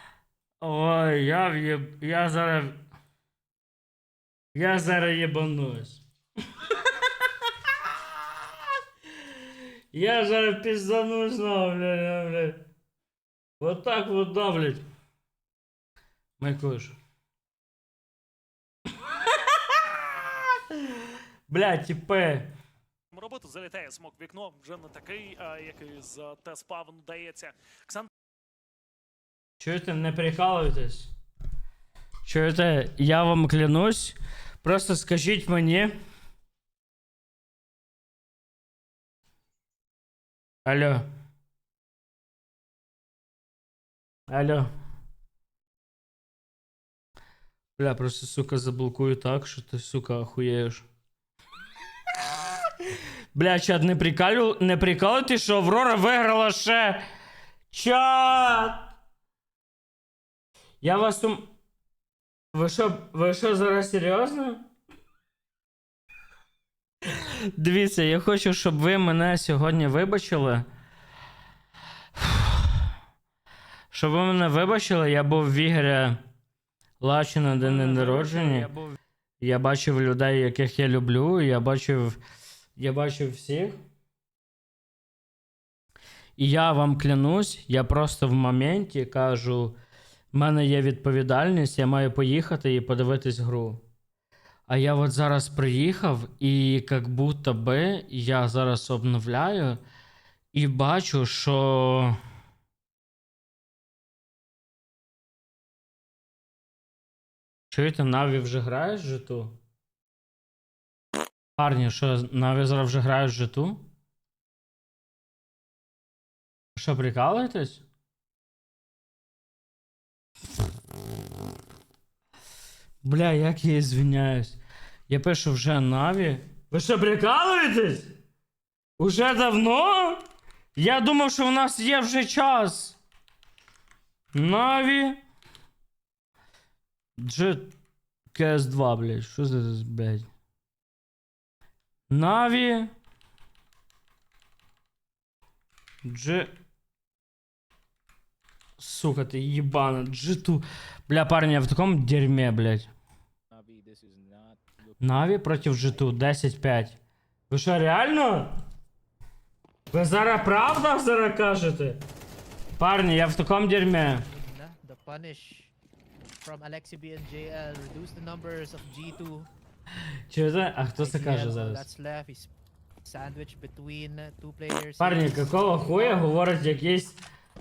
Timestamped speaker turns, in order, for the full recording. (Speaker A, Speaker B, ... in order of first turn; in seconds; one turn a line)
Speaker A: 0.6-2.8
Speaker A: 4.5-6.0
Speaker A: 9.9-12.6
Speaker A: 13.6-14.8
Speaker A: 16.4-16.9
Speaker A: 19.0-20.8
Speaker A: 21.5-22.5
Speaker B: 23.1-28.1
Speaker A: 29.6-31.1
Speaker A: 32.2-35.9
Speaker A: 40.6-41.0
Speaker A: 44.3-44.7
Speaker A: 47.8-50.8
Speaker A: 53.3-57.0
Speaker A: 57.7-58.9
Speaker A: 60.8-61.5
Speaker A: 62.5-64.6
Speaker A: 67.1-70.7
Speaker A: 72.2-72.7
Speaker A: 73.9-76.2
Speaker A: 77.0-78.7
Speaker A: 79.4-82.2
Speaker A: 82.8-83.8
Speaker A: 86.4-89.8
Speaker A: 90.3-93.8
Speaker A: 94.7-99.8
Speaker A: 100.5-102.2
Speaker A: 107.7-109.6
Speaker A: 111.6-113.8
Speaker A: 116.7-117.8
Speaker A: 123.0-128.1
Speaker A: 129.0-130.2
Speaker A: 130.8-133.0
Speaker A: 134.3-135.2
Speaker A: 137.2-137.7
Speaker A: 138.3-140.3
Speaker A: 142.1-142.9
Speaker A: 146.0-146.5
Speaker A: 148.8-152.9
Speaker C: 153.5-154.7
Speaker A: 155.0-157.0
Speaker A: 157.5-158.6
Speaker A: 159.9-162.0
Speaker A: 162.8-164.3
Speaker C: 164.3-165.7
Speaker C: 166.4-169.5
Speaker A: 170.3-171.9
Speaker C: 171.0-172.5
Speaker C: 173.0-176.3
Speaker A: 175.0-177.2